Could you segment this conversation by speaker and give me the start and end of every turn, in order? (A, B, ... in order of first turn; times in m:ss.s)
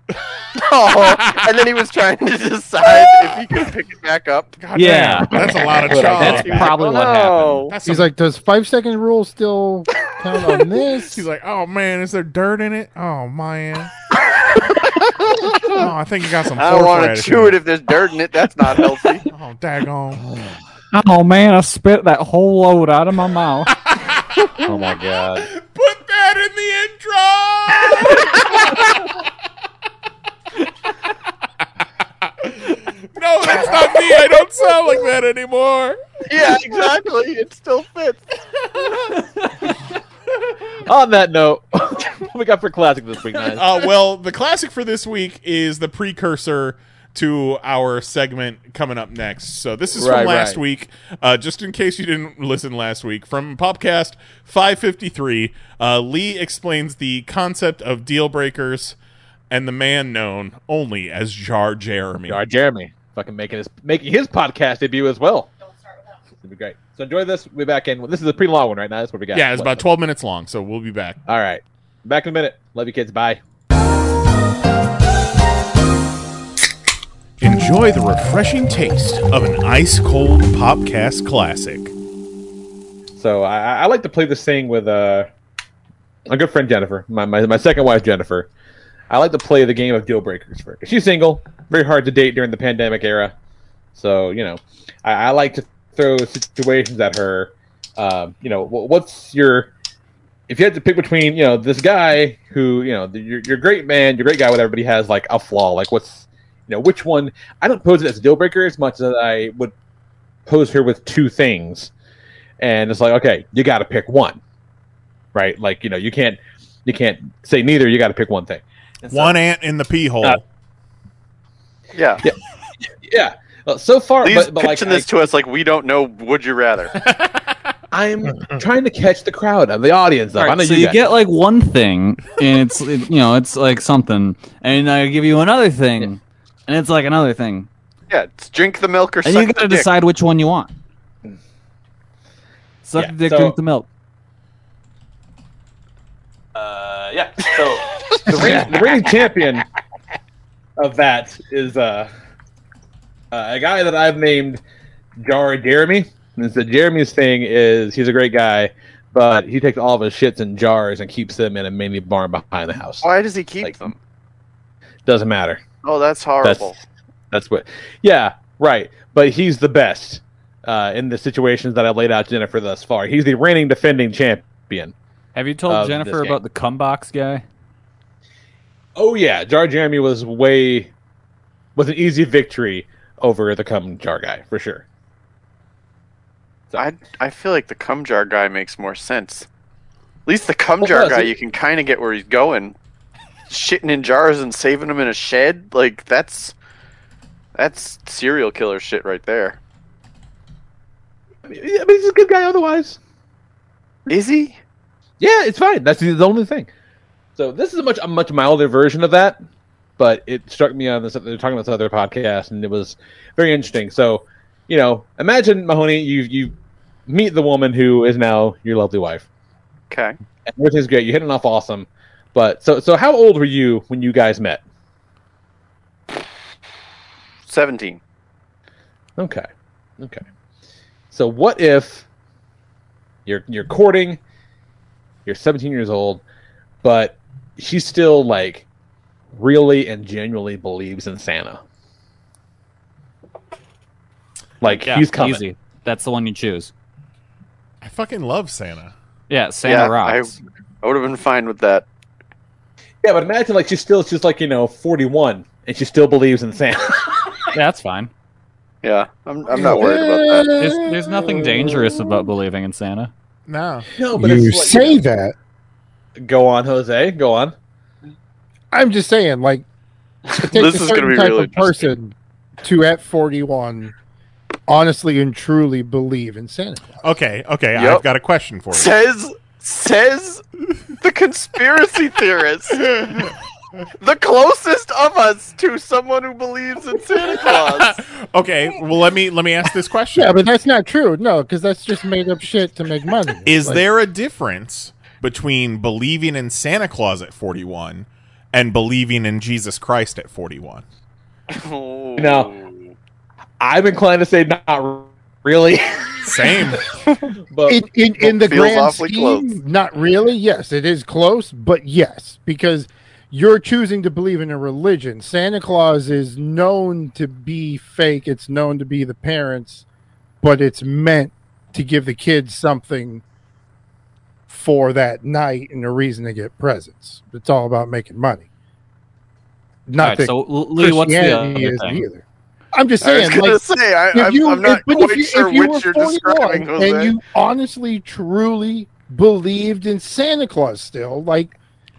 0:00.6-0:04.6 A
0:01.0-0:01.4 B
0:02.9-0:03.6 B
0:04.6-0:06.7 B
0:04.7-0:07.7 C
0:05.9-0:06.6 D
0:05.9-0:07.8 A
0:07.7-0:08.1 B
0:07.8-0:11.2 E
0:11.1-0:13.9 B
0:14.8-0:15.9 A
0:15.7-0:17.6 B
0:16.6-0:19.2 A
0:19.3-0:20.2 B
0:20.2-0:20.6 D
0:20.9-0:23.7 C
0:23.8-0:24.5 B
0:24.6-0:25.5 C
0:25.4-0:29.1 B
0:32.4-0:36.0 B
0:36.3-0:38.2 A
0:40.8-0:43.6 D
0:43.6-0:59.0 B
0:50.0-0:50.6 D
0:59.5-1:02.4 B
1:02.3-1:05.5 D
1:06.4-1:09.8 D
1:09.3-1:11.2 B
1:11.2-1:13.4 D
1:17.4-1:21.9 B
1:23.2-1:25.3 D
1:26.3-1:28.5 D
1:29.1-1:33.3 D
1:34.0-1:39.7 D
1:40.5-1:49.7 D
1:50.4-1:51.9 D
1:52.6-1:54.4 D
1:55.3-1:59.4 D
1:59.1-2:00.4 B
2:01.9-2:02.2 A
2:02.9-2:05.1 D
2:04.2-2:06.9 A
2:07.9-2:11.0 D
2:10.4-2:17.7 C
2:18.1-2:19.9 A
2:19.2-2:20.7 C
2:22.8-2:23.9 C
2:23.0-2:23.6 D
2:26.5-2:29.6 D
2:30.8-2:32.1 D
2:33.3-2:34.6 D
2:35.2-2:43.0 D
2:43.0-2:44.0 A
2:43.6-2:43.9 D
2:45.0-2:45.6 D
2:45.8-2:46.8 A
2:46.4-2:46.7 D
2:47.3-2:54.9 D
2:55.3-2:57.4 C
2:55.7-2:56.4 D
2:59.0-3:00.9 D
3:01.8-3:04.8 D
3:06.7-3:09.5 A
3:10.2-3:12.8 A
3:10.8-3:11.3 D
3:13.5-3:16.5 A
3:17.6-3:19.6 A
3:21.5-3:23.0 D
3:24.1-3:24.6 A
3:25.2-3:26.7 D
3:27.4-3:29.4 D
3:30.0-3:36.5 D
3:37.1-3:39.2 D
3:39.9-3:40.1 A
3:40.5-3:44.6 D
3:47.5-3:48.0 A
3:49.2-3:49.5 D
3:51.1-3:52.0 D
3:53.2-3:54.2 D
3:55.2-3:56.2 D
3:56.8-3:58.6 D
3:59.3-4:01.6 D
4:04.6-4:05.4 D
4:04.6-4:06.7 C
4:07.8-4:08.9 B
4:09.3-4:10.3 C
4:09.6-4:11.8 A
4:13.0-4:17.4 D
4:17.5-4:18.1 C
4:18.8-4:20.6 A
4:19.5-4:21.8 E
4:20.6-4:23.1 C
4:23.5-4:23.9 B
4:23.9-4:25.0 D
4:24.1-4:25.3 E
4:26.2-4:27.5 D
4:28.7-4:29.6 E
4:30.2-4:31.9 A
4:30.4-4:33.9 E
4:34.7-4:37.0 E
4:37.0-4:38.9 B
4:37.7-4:38.0 A
4:38.7-4:40.4 A
4:41.0-4:42.9 A
4:42.8-4:43.3 B
4:44.0-4:48.0 A
4:47.4-4:50.4 B
4:50.1-4:53.8 E
4:53.4-5:00.8 B
5:01.5-5:02.9 A
5:02.2-5:02.5 D
5:03.6-5:06.6 D
5:06.2-5:06.8 B
5:07.5-5:08.3 D
5:07.7-5:19.8 E
5:08.3-5:09.6 A
5:20.4-5:23.2 E
5:24.5-5:28.5 E
5:29.9-5:33.6 E
5:30.0-5:32.0 C
5:33.0-5:37.2 A
5:34.1-5:41.5 E